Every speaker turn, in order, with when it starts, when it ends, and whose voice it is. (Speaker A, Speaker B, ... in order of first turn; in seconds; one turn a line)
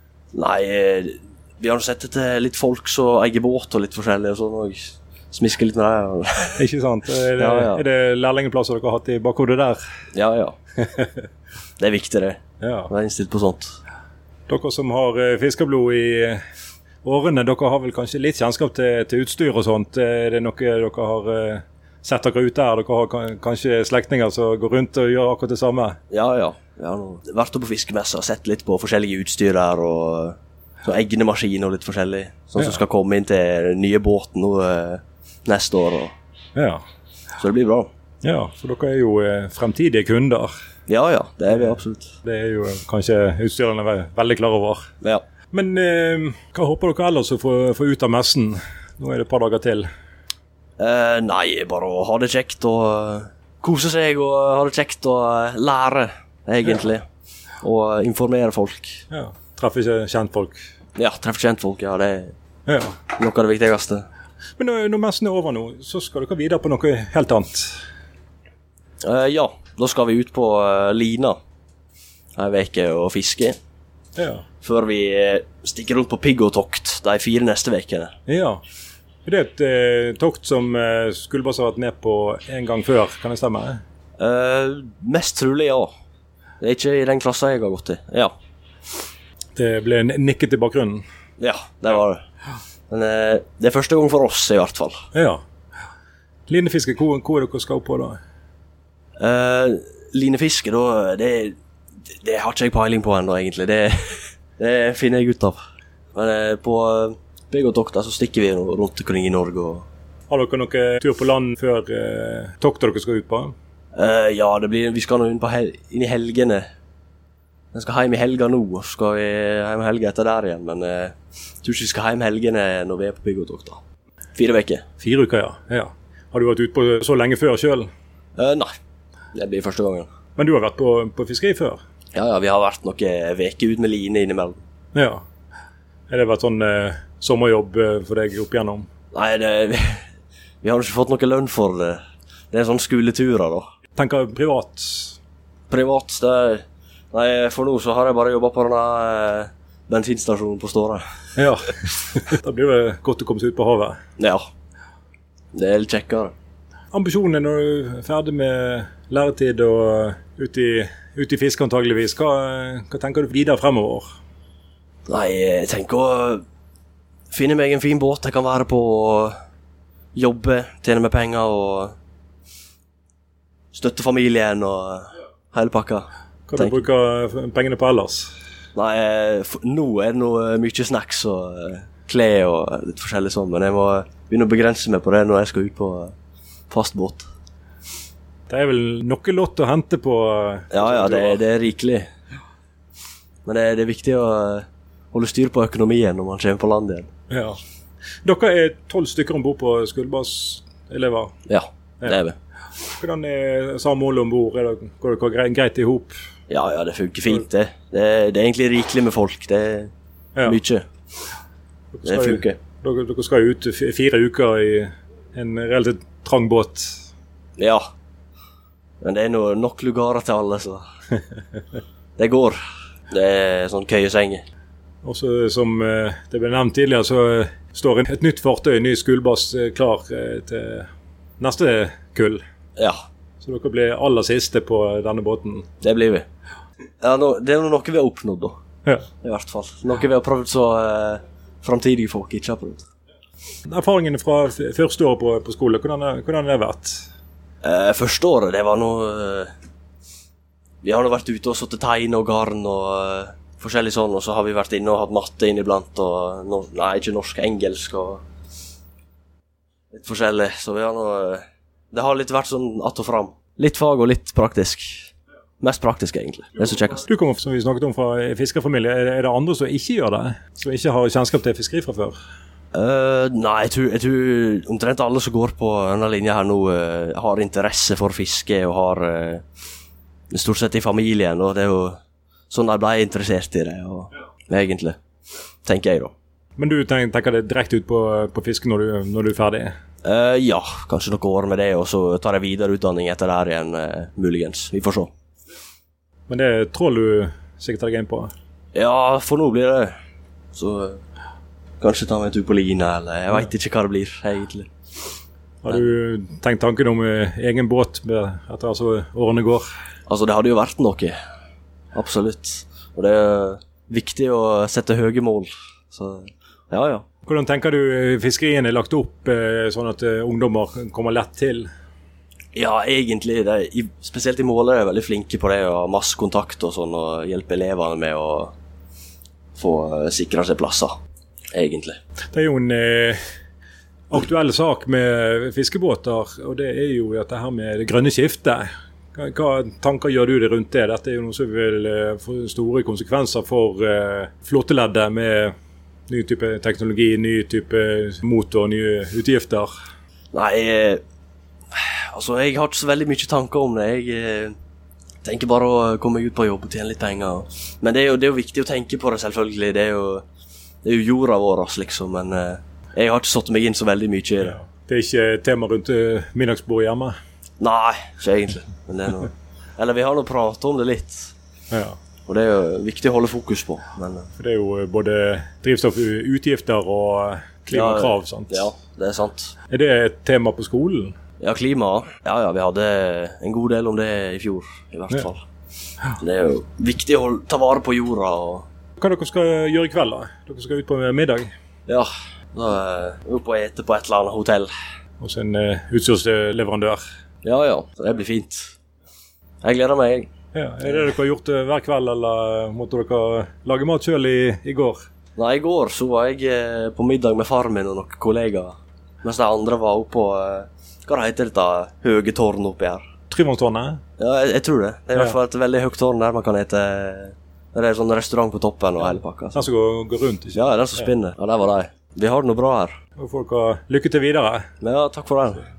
Speaker A: 0.3-6.6
Speaker B: 6.6-9.8
Speaker A: 7.4-7.8
Speaker A: 10.1-10.6
Speaker A: 11.8-13.7
Speaker B: 12.6-12.9
Speaker B: 14.5-16.4
Speaker B: 17.0-25.9
Speaker A: 26.1-36.1
Speaker B: 36.5-36.8
Speaker A: 37.4-37.9
Speaker B: 38.2-40.5
Speaker A: 40.9-42.1
Speaker B: 42.2-44.8
Speaker B: 45.5-49.9
Speaker A: 50.8-57.0
Speaker A: 57.6-59.0
Speaker B: 59.1-60.6
Speaker A: 61.0-62.3
Speaker B: 62.7-62.9
Speaker A: 63.1-64.0
Speaker B: 64.6-67.8
Speaker A: 69.0-71.4
Speaker A: 72.3-73.5
Speaker B: 74.2-74.4
Speaker A: 74.6-78.1
Speaker B: 78.3-78.6
Speaker B: 79.2-83.8
Speaker A: 84.2-85.9
Speaker A: 86.6-88.3
Speaker B: 89.6-91.0
Speaker A: 91.4-92.2
Speaker A: 92.9-95.0
Speaker B: 95.1-95.4
Speaker B: 96.5-98.2
Speaker A: 99.2-101.5
Speaker A: 102.1-105.6
Speaker A: 106.1-109.8
Speaker B: 110.3-113.5
Speaker A: 113.9-116.7
Speaker A: 117.7-123.8
Speaker A: 124.3-124.8
Speaker B: 125.0-127.9
Speaker A: 128.4-128.7
Speaker A: 129.3-130.1
Speaker B: 130.4-131.8
Speaker A: 132.1-134.6
Speaker B: 134.9-135.2
Speaker B: 136.1-138.9
Speaker A: 139.1-140.1
Speaker A: 140.6-142.0
Speaker A: 142.5-143.7
Speaker B: 143.9-145.2
Speaker A: 145.7-151.0
Speaker B: 151.4-154.0
Speaker A: 154.2-154.4
Speaker A: 155.5-156.3
Speaker B: 156.9-164.1
Speaker A: 165.1-166.4
Speaker A: 167.3-169.3
Speaker A: 170.1-171.9
Speaker A: 173.7-176.8
Speaker B: 176.5-178.3
Speaker A: 178.7-186.1
Speaker A: 186.7-187.3
Speaker B: 188.5-191.4
Speaker A: 190.7-192.1
Speaker A: 193.4-197.1
Speaker B: 197.3-197.6
Speaker B: 198.2-201.3
Speaker A: 201.5-202.3
Speaker B: 203.0-206.1
Speaker A: 206.5-209.9
Speaker A: 210.4-210.8
Speaker B: 211.9-217.0
Speaker A: 212.1-212.6
Speaker A: 217.6-217.8
Speaker A: 219.0-220.8
Speaker A: 222.2-222.6
Speaker A: 223.1-224.4
Speaker B: 225.0-230.9
Speaker B: 231.4-232.4
Speaker B: 233.4-235.6
Speaker A: 235.8-236.2
Speaker A: 237.0-238.5
Speaker A: 239.2-242.8
Speaker B: 243.7-247.0
Speaker A: 247.6-249.5
Speaker A: 250.8-258.2
Speaker A: 259.9-267.0
Speaker B: 267.0-272.1
Speaker A: 272.7-279.4
Speaker A: 280.3-282.0
Speaker A: 282.5-285.0
Speaker A: 285.6-286.1
Speaker B: 286.6-289.7
Speaker A: 290.0-295.1
Speaker B: 296.3-298.3
Speaker A: 298.7-299.9
Speaker A: 300.5-301.0
Speaker A: 301.8-304.7
Speaker B: 305.6-309.6
Speaker A: 310.1-311.2
Speaker A: 311.9-317.0
Speaker B: 317.3-321.7
Speaker A: 322.6-328.5
Speaker A: 329.6-330.9
Speaker A: 331.5-332.0
Speaker B: 332.3-333.2
Speaker B: 334.1-345.5
Speaker B: 346.1-349.7
Speaker A: 350.3-351.0
Speaker A: 351.7-354.5
Speaker A: 355.2-360.2
Speaker A: 360.8-364.6
Speaker B: 364.4-367.1
Speaker A: 367.6-371.3
Speaker A: 372.3-374.3
Speaker B: 374.4-378.7
Speaker A: 377.7-379.5
Speaker B: 379.7-381.1
Speaker A: 381.4-385.4
Speaker A: 386.2-388.6
Speaker B: 389.0-391.5
Speaker A: 391.9-394.7
Speaker B: 395.2-397.0
Speaker A: 397.4-398.7
Speaker A: 399.6-400.3
Speaker B: 400.5-405.0
Speaker A: 405.4-413.0
Speaker B: 413.3-414.0
Speaker A: 414.2-419.6
Speaker B: 419.0-420.6
Speaker A: 420.5-423.0
Speaker B: 423.2-424.6
Speaker A: 424.8-425.6